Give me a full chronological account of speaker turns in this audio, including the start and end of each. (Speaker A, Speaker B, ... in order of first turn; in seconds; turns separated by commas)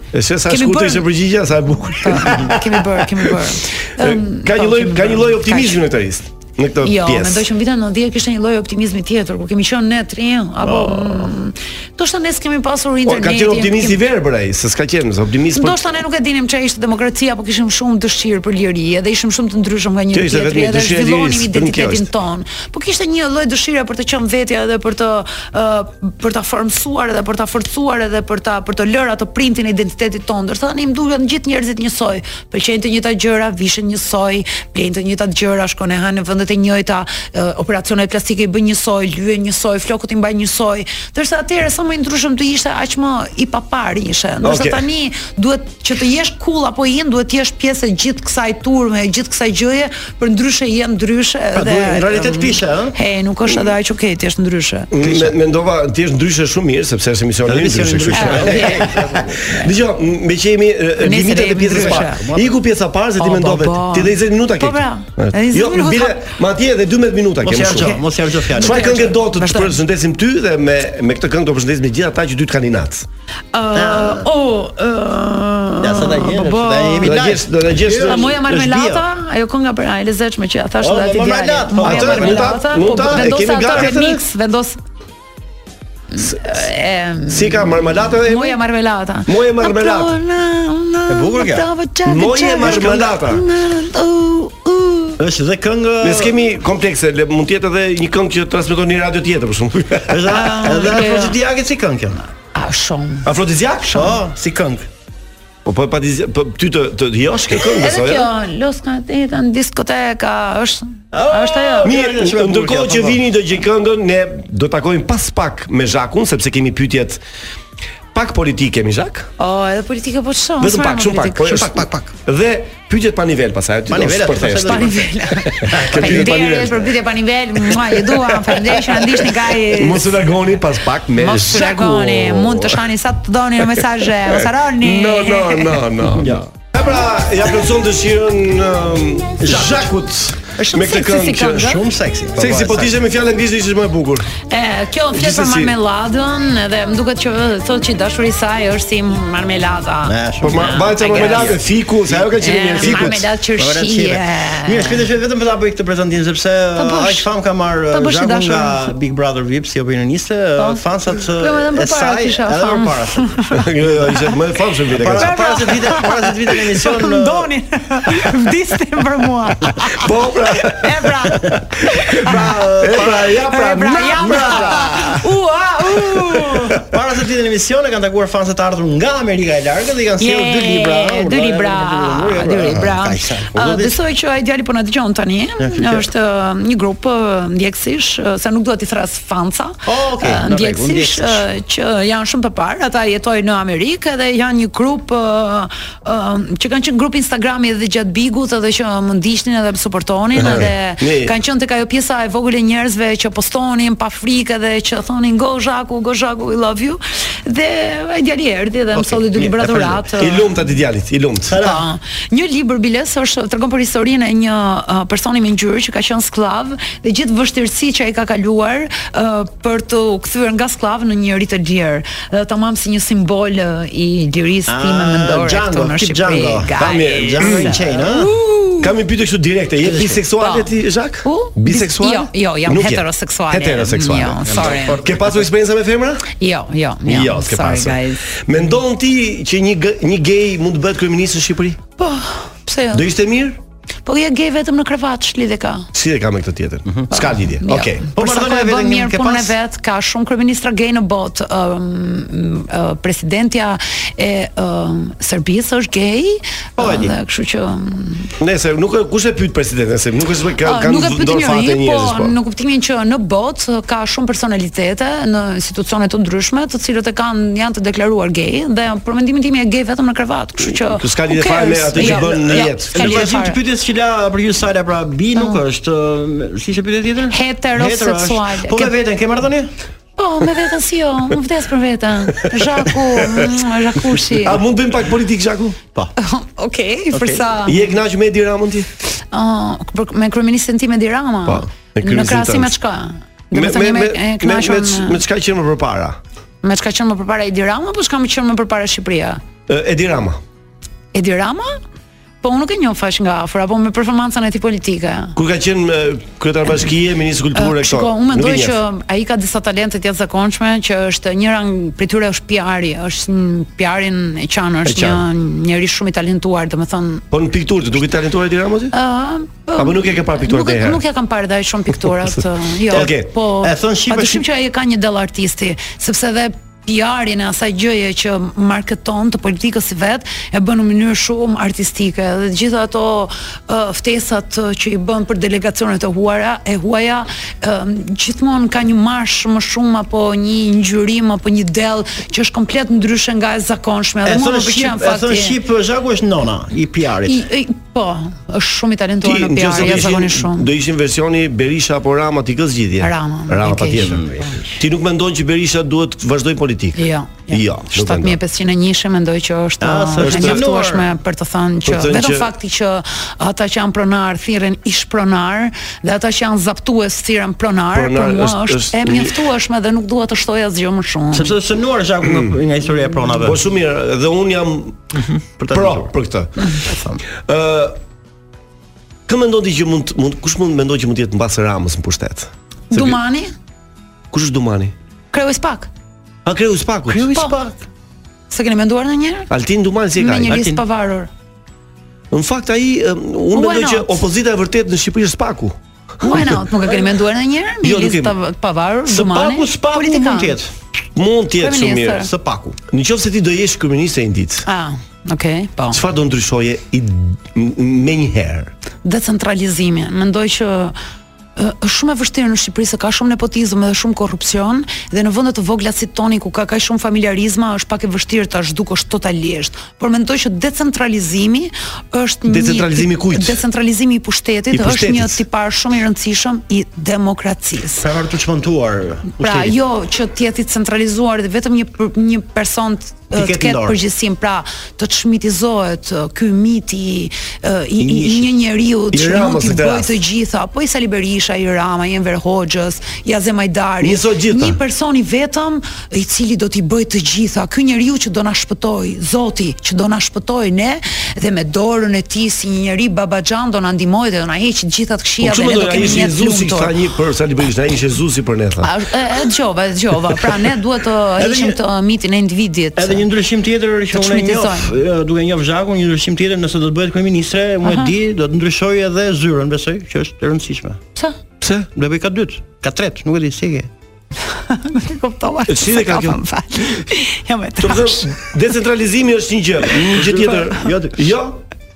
Speaker A: 0.1-3.3, Speaker B: 0.5-1.1, Speaker B: 2.0-5.9, Speaker A: 4.0-7.5, Speaker B: 6.8-14.0, Speaker C: 10.6-11.3, Speaker A: 13.1-15.8, Speaker B: 15.5-54.9, Speaker A: 20.1-22.1, Speaker A: 44.4-44.8, Speaker C: 51.5-53.0, Speaker A: 54.9-68.0, Speaker C: 55.0-55.3, Speaker C: 57.5-59.4, Speaker B: 58.1-59.7, Speaker B: 61.0-62.2, Speaker C: 61.6-62.5, Speaker B: 63.2-66.3, Speaker C: 67.4-69.1, Speaker B: 68.5-69.8, Speaker A: 68.6-73.1, Speaker B: 73.5-77.3, Speaker C: 73.7-74.3, Speaker C: 75.8-79.0, Speaker A: 77.0-78.4, Speaker B: 78.0-84.8, Speaker C: 80.8-83.9, Speaker A: 81.8-84.2, Speaker B: 86.1-95.2, Speaker A: 87.3-88.6, Speaker A: 89.3-90.2, Speaker C: 91.1-91.7, Speaker A: 92.1-93.4, Speaker C: 92.6-93.1, Speaker C: 95.2-96.4, Speaker A: 96.0-100.2, Speaker C: 100.1-102.2, Speaker B: 100.3-101.4, Speaker B: 102.5-103.3, Speaker A: 103.3-104.0, Speaker B: 103.9-104.2, Speaker C: 103.9-104.9, Speaker A: 105.7-108.3, Speaker B: 107.6-112.0, Speaker C: 111.1-113.2, Speaker A: 111.8-117.2, Speaker A: 118.1-119.3, Speaker B: 119.4-121.7, Speaker A: 120.6-124.9, Speaker C: 121.5-122.1, Speaker C: 123.9-126.4, Speaker B: 124.6-130.3, Speaker A: 125.5-127.0, Speaker A: 127.6-132.8, Speaker B: 131.2-135.8, Speaker A: 133.7-141.7, Speaker C: 136.2-136.4, Speaker C: 139.4-139.9, Speaker B: 140.6-141.8, Speaker C: 141.5-143.0, Speaker A: 142.4-144.3, Speaker B: 144.4-151.6, Speaker A: 145.1-145.8, Speaker C: 150.1-163.4, Speaker A: 150.4-153.2, Speaker B: 152.4-155.1, Speaker B: 156.8-157.3, Speaker B: 157.9-158.9, Speaker B: 160.6-164.4, Speaker A: 163.6-165.3, Speaker C: 164.9-167.5, Speaker B: 165.2-171.6, Speaker A: 170.0-170.9, Speaker C: 171.3-175.1, Speaker B: 172.2-172.5, Speaker A: 172.8-175.2, Speaker B: 173.3-176.8, Speaker C: 176.8-184.0, Speaker B: 180.2-210.7, Speaker C: 185.6-186.1, Speaker C: 189.9-191.5, Speaker A: 200.4-201.3, Speaker C: 208.9-210.1, Speaker A: 210.2-211.6, Speaker C: 211.5-211.8, Speaker B: 211.6-228.9, Speaker C: 224.7-228.3, Speaker A: 226.8-227.8, Speaker A: 228.8-236.3, Speaker C: 229.8-230.2, Speaker B: 230.4-235.0, Speaker C: 234.4-235.4, Speaker B: 236.3-238.2, Speaker A: 237.1-241.8, Speaker B: 242.0-243.1, Speaker A: 242.9-243.6, Speaker B: 244.1-245.9, Speaker A: 245.9-248.1, Speaker C: 246.9-247.1, Speaker B: 247.2-258.3, Speaker C: 248.1-249.5, Speaker C: 256.8-257.2, Speaker A: 258.4-262.3, Speaker B: 260.6-273.6, Speaker A: 270.7-273.3, Speaker C: 271.9-279.7, Speaker B: 275.4-275.6, Speaker B: 277.3-278.9, Speaker B: 280.2-284.6, Speaker A: 284.4-285.8, Speaker B: 286.2-287.9, Speaker C: 287.1-287.5, Speaker A: 287.7-288.9, Speaker B: 289.3-295.2, Speaker A: 291.5-292.7, Speaker A: 293.5-296.2, Speaker B: 296.6-299.4, Speaker A: 299.7-300.4, Speaker B: 301.1-301.8, Speaker B: 302.4-305.4, Speaker A: 305.4-308.8, Speaker B: 307.6-317.2, Speaker A: 314.9-315.2, Speaker A: 317.3-318.9, Speaker B: 318.9-345.6, Speaker A: 319.8-321.0, Speaker C: 322.9-324.4, Speaker A: 322.9-323.3, Speaker C: 344.2-347.4, Speaker B: 347.2-350.7, Speaker A: 349.2-354.2, Speaker B: 353.0-354.5, Speaker C: 353.9-354.8, Speaker A: 354.8-358.4, Speaker B: 357.0-371.5, Speaker C: 359.8-361.1, Speaker A: 360.2-360.7, Speaker A: 361.9-362.5, Speaker A: 367.9-369.4, Speaker C: 371.3-373.6, Speaker A: 372.2-372.6, Speaker A: 373.4-375.1, Speaker C: 375.1-376.1, Speaker A: 375.7-376.5, Speaker C: 376.8-377.2, Speaker A: 377.4-378.0, Speaker A: 379.3-383.2, Speaker B: 382.9-383.5, Speaker A: 384.3-384.9, Speaker B: 385.3-385.9, Speaker A: 386.4-387.3, Speaker C: 387.1-387.9, Speaker B: 388.5-389.5, Speaker A: 389.5-390.6, Speaker B: 390.2-391.3, Speaker C: 390.5-390.8, Speaker A: 392.3-396.6, Speaker B: 393.5-394.2, Speaker B: 396.2-400.6, Speaker A: 397.8-398.4, Speaker C: 399.1-400.7, Speaker A: 401.1-402.2, Speaker B: 401.6-402.3, Speaker C: 402.1-402.8, Speaker A: 402.9-404.6, Speaker B: 404.7-406.0, Speaker A: 405.9-408.7, Speaker B: 409.0-410.9, Speaker B: 411.6-428.1, Speaker A: 422.5-423.6, Speaker A: 424.7-425.4, Speaker C: 428.0-429.8, Speaker B: 429.4-456.9, Speaker C: 433.3-434.0, Speaker C: 438.0-438.5, Speaker A: 439.1-440.2, Speaker A: 444.0-444.8, Speaker A: 455.4-458.9, Speaker B: 458.8-463.3, Speaker C: 461.4-461.8, Speaker C: 463.0-471.0, Speaker B: 464.1-465.0, Speaker B: 467.8-468.1, Speaker A: 471.6-471.9, Speaker C: 471.9-473.9, Speaker B: 474.6-478.5, Speaker A: 475.7-476.4, Speaker A: 477.8-481.6, Speaker B: 479.9-480.9